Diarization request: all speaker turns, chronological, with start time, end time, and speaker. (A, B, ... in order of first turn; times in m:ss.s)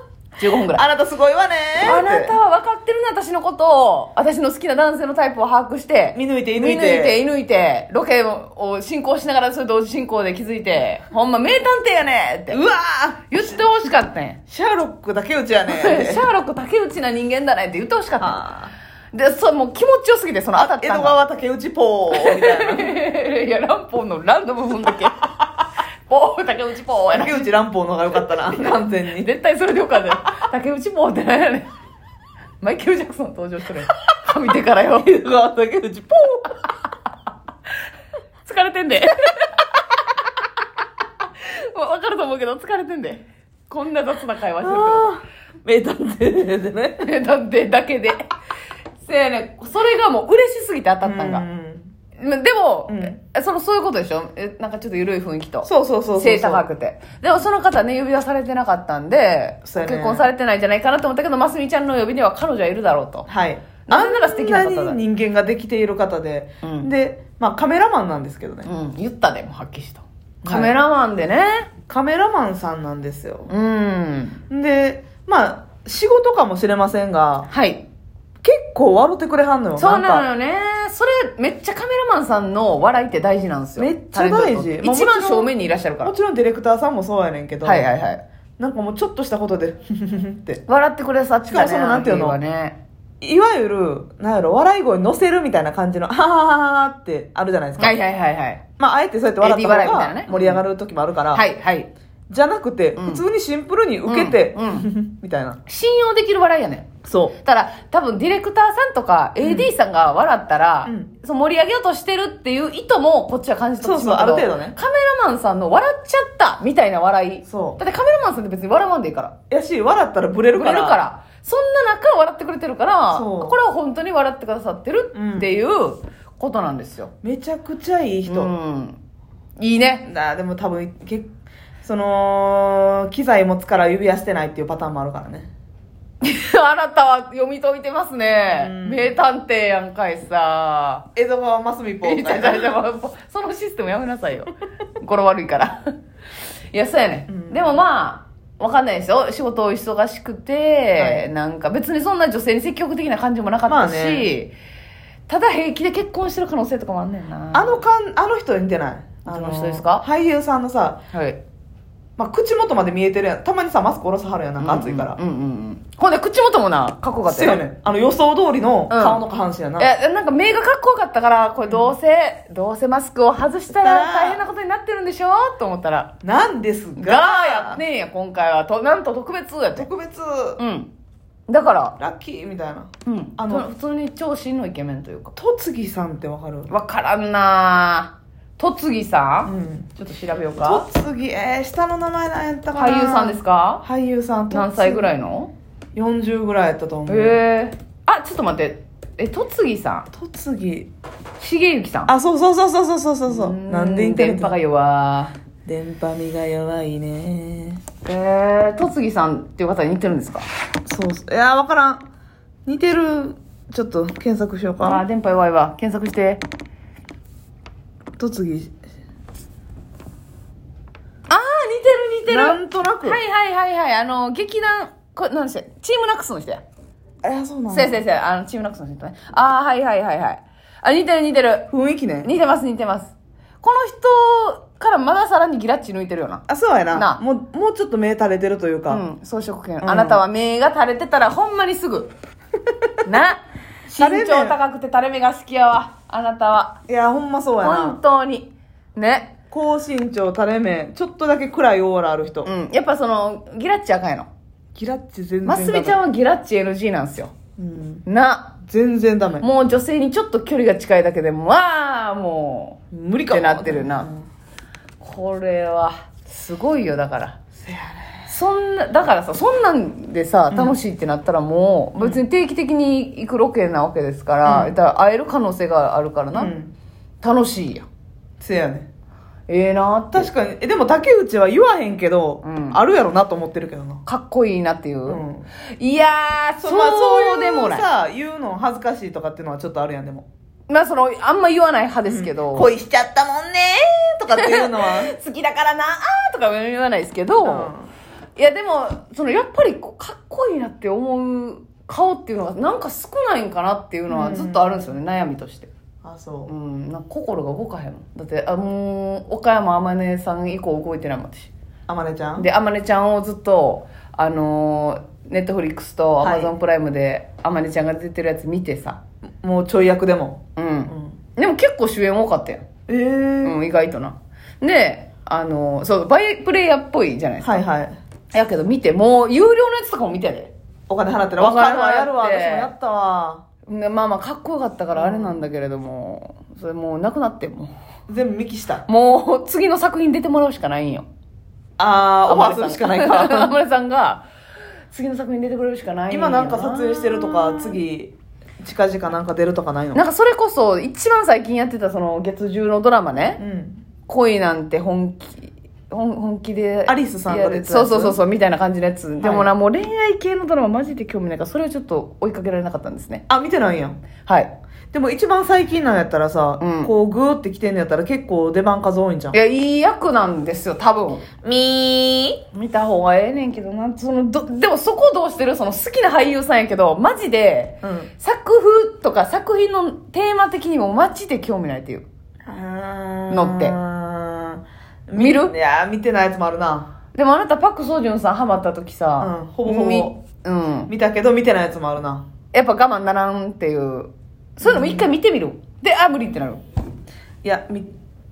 0:00.4-0:00.8 A
0:00.7-0:02.4 B
0:01.8-0:12.6 A
0:06.1-0:07.2 B
0:12.5-0:13.7 B
0:13.3-0:14.4 A
0:14.5-0:16.2 B
0:15.7-0:18.4 A
0:18.2-0:18.7 B
0:19.1-0:21.2 A
0:20.6-0:23.0 B
0:22.1-0:27.5 A
0:27.1-0:29.3 B
0:28.3-0:31.7 A
0:32.6-0:35.1 A
0:35.0-0:36.5 B
0:38.4-0:39.7 A
0:41.3-0:45.1 A
0:44.6-0:47.1 B
0:47.0-0:48.2 A
0:49.0-0:51.4 A
0:51.0-0:51.9 B
0:52.2-1:03.3 A
0:52.9-0:53.1 B
0:55.6-0:56.6 B
0:59.7-1:00.3 B
1:03.3-1:08.7 B
1:03.8-1:05.0 A
1:06.6-1:06.9 A
1:08.6-1:11.7 A
1:10.4-1:10.8 B
1:11.9-1:13.5 B
1:13.5-1:14.4 A
1:14.5-1:17.5 B
1:17.5-1:17.8 A
1:18.4-1:20.2 B
1:19.8-1:26.1 A
1:23.8-1:27.9 B
1:27.6-1:28.2 A
1:28.6-1:30.6 B
1:30.6-1:32.8 A
1:31.5-1:32.4 B
1:33.2-1:38.0 B
1:37.8-1:38.6 A
1:38.8-1:41.4 B
1:39.4-1:40.6 A
1:41.3-1:41.9 A
1:42.3-1:45.6 B
1:43.0-1:43.2 A
1:44.1-1:44.9 A
1:45.6-1:59.3 A
1:47.0-1:47.3 B
1:49.4-1:49.7 B
1:53.8-1:54.8 B
1:57.4-1:57.8 B
1:59.5-2:01.0 B
2:00.5-2:07.1 A
2:03.1-2:03.6 B
2:05.1-2:05.5 B
2:07.2-2:08.5 B
2:08.3-2:09.0 A
2:09.6-2:10.1 A
2:10.0-2:11.3 B
2:11.8-2:15.5 B
2:16.2-2:21.1 A
2:18.5-2:19.2 B
2:21.2-2:22.8 B
2:22.0-2:25.8 A
2:26.7-2:34.5 A
2:27.3-2:27.8 B
2:31.0-2:31.3 B
2:33.7-2:34.3 B
2:35.3-2:37.8 A
2:37.5-2:41.0 B
2:39.2-2:40.0 A
2:41.1-2:41.4 A
2:42.2-2:45.2 B
2:44.6-2:47.6 A
2:47.2-2:49.9 B
2:48.9-2:49.2 A
2:49.8-2:56.1 A
2:51.6-2:51.9 B
2:53.8-2:54.4 B
2:56.2-2:57.8 B
2:57.0-2:59.9 A
2:59.8-3:00.6 B
3:00.6-3:00.9 A
3:01.5-3:02.0 A
3:02.0-3:03.7 B
3:03.0-3:05.3 A
3:05.4-3:06.7 B
3:06.7-3:10.8 A
3:09.4-3:09.9 B
3:10.6-3:15.1 B
3:12.7-3:13.8 A
3:14.5-3:15.5 A
3:15.9-3:17.4 B
3:17.1-3:20.1 A
3:20.1-3:20.9 B
3:21.4-3:22.1 A
3:22.1-3:24.6 B
3:23.3-3:25.3 A
3:25.6-3:27.8 B
3:28.0-3:30.5 A
3:30.8-3:32.0 B
3:32.6-3:35.0 B
3:34.8-3:36.4 A
3:38.2-3:38.8 B
3:41.3-3:46.6 A
3:42.3-3:43.2 B
3:47.2-3:48.0 B
3:47.7-3:51.7 A
3:51.7-3:52.3 B
3:52.2-3:57.2 A
3:56.5-3:59.0 B
3:58.9-4:02.1 A
3:59.8-4:00.2 B
4:03.0-4:06.8 A
4:03.9-4:04.6 B
4:06.9-4:08.0 B
4:07.6-4:09.3 A
4:09.5-4:12.5 B
4:12.4-4:14.3 A
4:14.7-4:16.0 B
4:15.4-4:17.3 A
4:17.6-4:18.0 B
4:18.0-4:18.6 A
4:18.6-4:19.5 B
4:19.4-4:24.1 A
4:22.9-4:24.3 B
4:25.0-4:27.4 A
4:27.6-4:28.3 B
4:28.3-4:36.5 A
4:30.5-4:30.8 B
4:34.4-4:34.7 B
4:36.3-4:36.7 B
4:37.2-4:37.9 A
4:38.4-4:38.9 B
4:39.5-4:40.3 A
4:40.1-4:44.0 B
4:42.4-4:42.8 A
4:44.0-4:45.2 A
4:45.1-4:45.5 B
4:45.8-4:47.9 A
4:46.6-4:50.3 B
4:50.7-4:52.7 A
4:52.0-4:55.1 B
4:54.3-4:57.7 A
4:57.4-4:57.9 B
4:58.4-5:05.7 A
5:04.1-5:04.9 B
5:06.0-5:06.5 B
5:06.5-5:11.5 A
5:11.9-5:12.4 B
5:12.4-5:19.0 A
5:16.2-5:16.5 B
5:19.4-5:21.2 B
5:20.6-5:22.6 A
5:22.9-5:23.6 B
5:23.4-5:27.6 A
5:27.4-5:27.9 B
5:28.3-5:30.5 A
5:30.9-5:33.4 B
5:31.4-5:32.7 A
5:33.6-5:37.7 A
5:34.9-5:35.4 B
5:38.1-5:38.8 B
5:38.9-5:41.0 A
5:41.8-5:43.5 B
5:42.3-5:44.2 A
5:44.9-5:47.8 A
5:46.1-5:50.0 B
5:49.9-5:53.4 A
5:53.4-5:53.8 B
5:54.1-6:03.2 A
5:56.9-5:58.2 B
5:59.2-5:59.5 B
6:03.3-6:04.0 B
6:04.2-6:04.5 A
6:04.9-6:09.4 B
6:06.6-6:06.9 A
6:09.3-6:11.3 A
6:11.4-6:12.4 B
6:12.5-6:22.0 A
6:17.8-6:18.1 B
6:22.4-6:26.9 B
6:23.3-6:23.8 A
6:25.2-6:25.5 A
6:27.1-6:30.9 A
6:29.2-6:30.1 B
6:30.9-6:32.2 B
6:32.5-6:36.6 A
6:34.6-6:35.2 B
6:37.4-6:37.9 B